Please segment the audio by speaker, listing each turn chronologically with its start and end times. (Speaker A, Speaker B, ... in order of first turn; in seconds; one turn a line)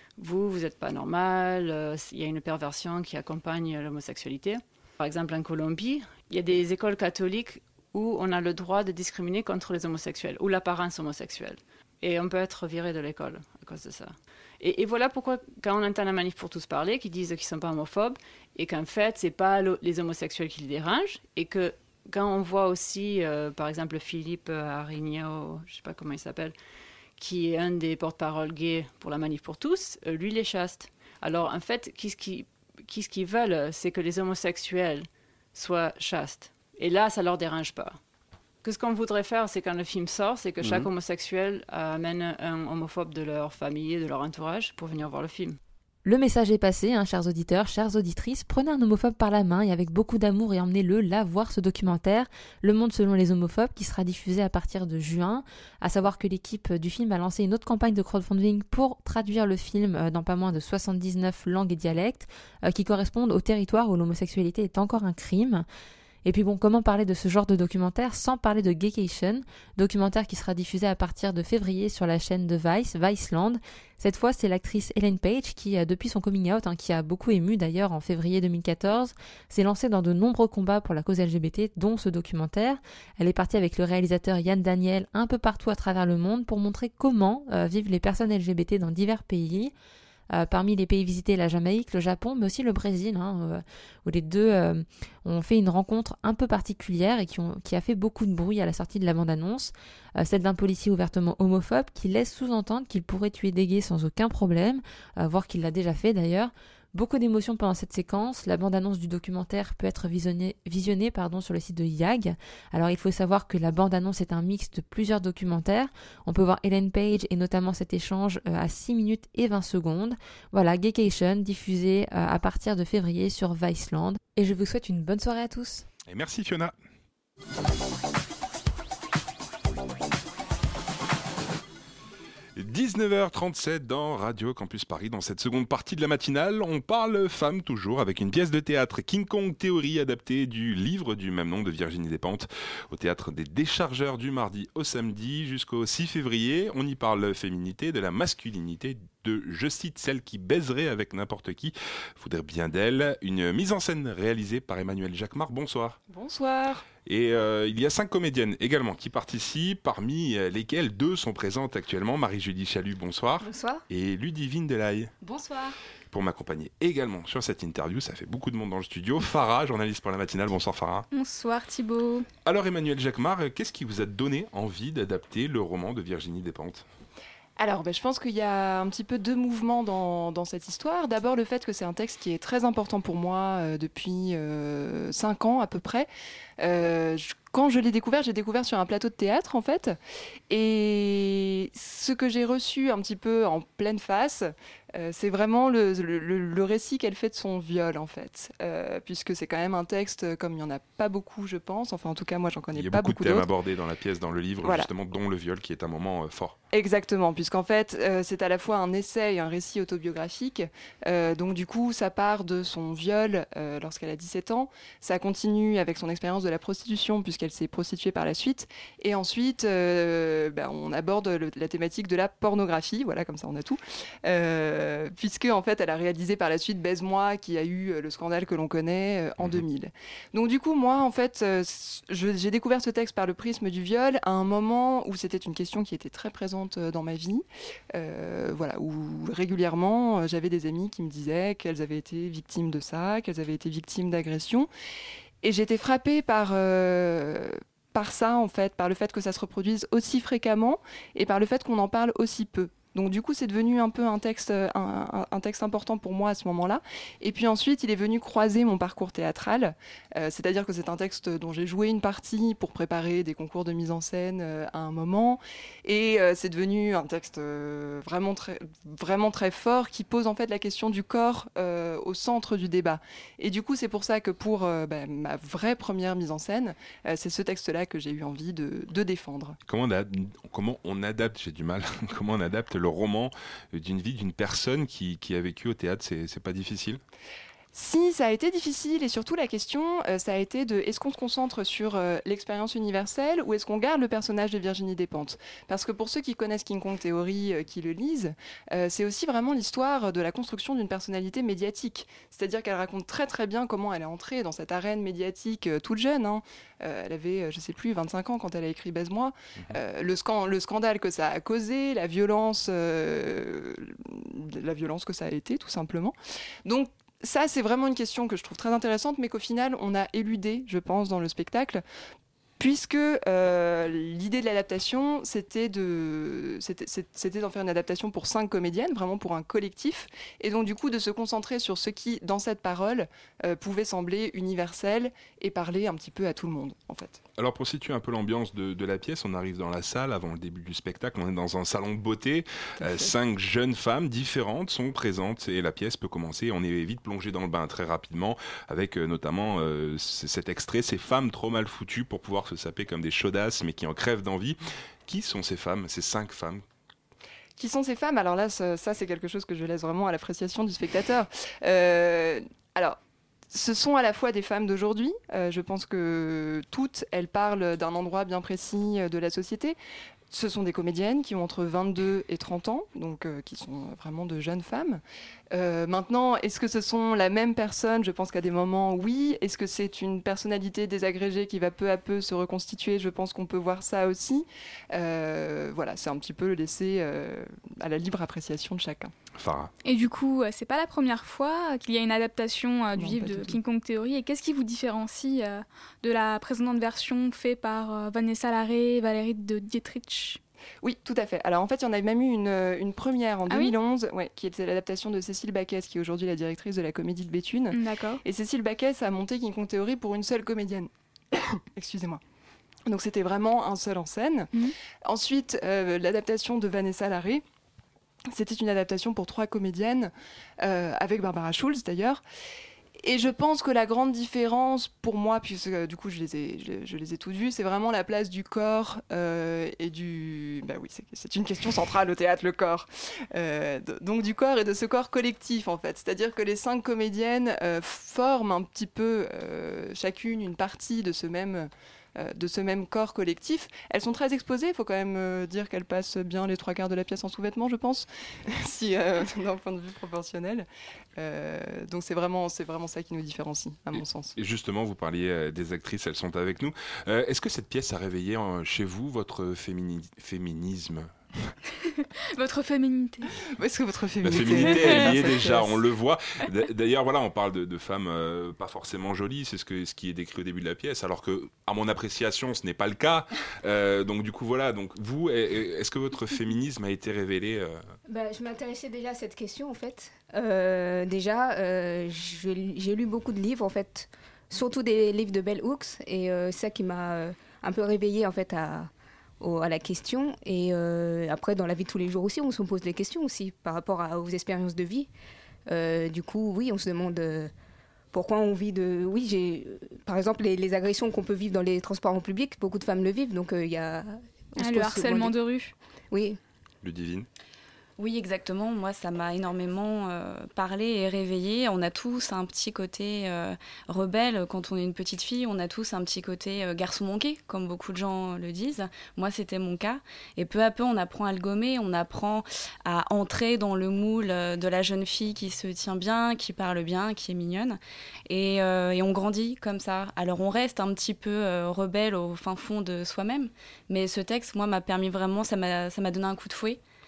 Speaker A: 0.2-26.5
Speaker A: 27.2-38.0
Speaker A: 38.6-45.6
Speaker B: 46.0-65.7
Speaker B: 66.2-89.7
Speaker B: 90.3-125.9
Speaker C: 126.1-126.8
Speaker C: 132.6-156.0
Speaker D: 156.1-156.9
Speaker C: 157.1-165.1
Speaker E: 163.4-163.8
Speaker E: 165.2-165.7
Speaker C: 166.1-171.1
Speaker F: 171.1-172.3
Speaker C: 172.4-176.9
Speaker D: 177.6-190.0
Speaker D: 190.5-203.5
Speaker C: 202.8-206.6
Speaker D: 204.6-204.9
Speaker D: 206.7-244.7
Speaker D: 245.4-279.6
Speaker C: 279.7-287.0
Speaker D: 287.7-321.8
Speaker D: 322.6-337.2
Speaker C: 337.4-356.6
Speaker D: 342.8-343.1
Speaker D: 357.6-363.0
Speaker D: 363.5-369.8
Speaker D: 370.3-389.1
Speaker C: 389.4-389.7
Speaker F: 389.8-400.4
Speaker D: 392.9-393.6
Speaker D: 400.8-410.9
Speaker F: 403.5-403.8
Speaker F: 407.7-408.2
Speaker D: 411.8-412.2
Speaker D: 412.9-414.5
Speaker D: 415.1-417.4
Speaker D: 418.3-422.2
Speaker D: 423.0-454.3
Speaker C: 454.4-461.5
Speaker F: 462.4-463.3
Speaker D: 463.6-465.8
Speaker C: 464.2-477.8
Speaker F: 464.4-465.3
Speaker E: 478.1-488.9
Speaker E: 489.4-495.1
Speaker E: 495.7-497.5
Speaker E: 498.1-505.3
Speaker F: 504.6-505.7
Speaker E: 506.1-506.4
Speaker C: 506.8-507.3
Speaker G: 508.0-536.8